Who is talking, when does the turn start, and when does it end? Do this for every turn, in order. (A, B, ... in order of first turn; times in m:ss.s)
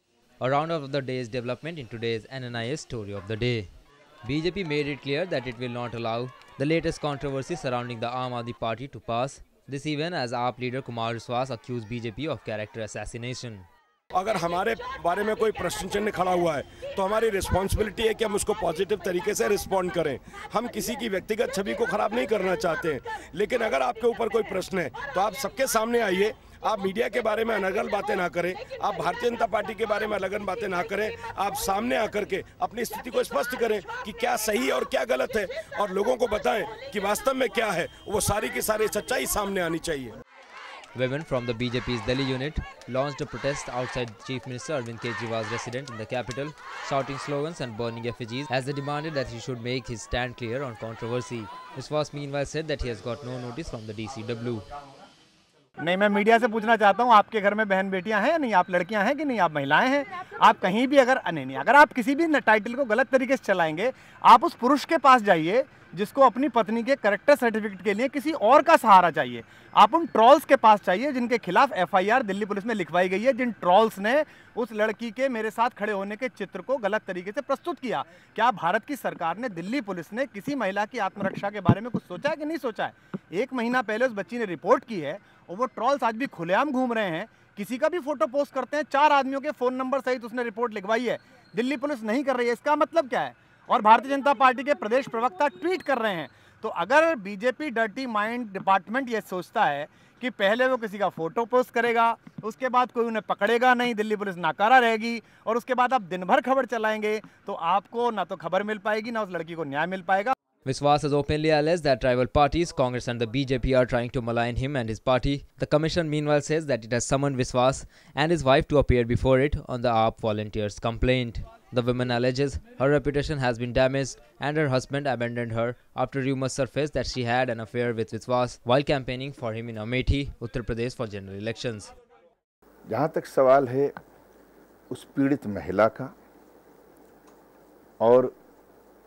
0:00.4-0:03.7 A
0:04.2-0:13.7 A
0:14.1-0:40.2 B
0:40.9-0:54.6 A
0:55.8-1:50.3 C
1:50.6-2:11.9 A
2:12.9-2:13.9 D
2:14.9-2:16.1 D
2:18.0-2:18.3 D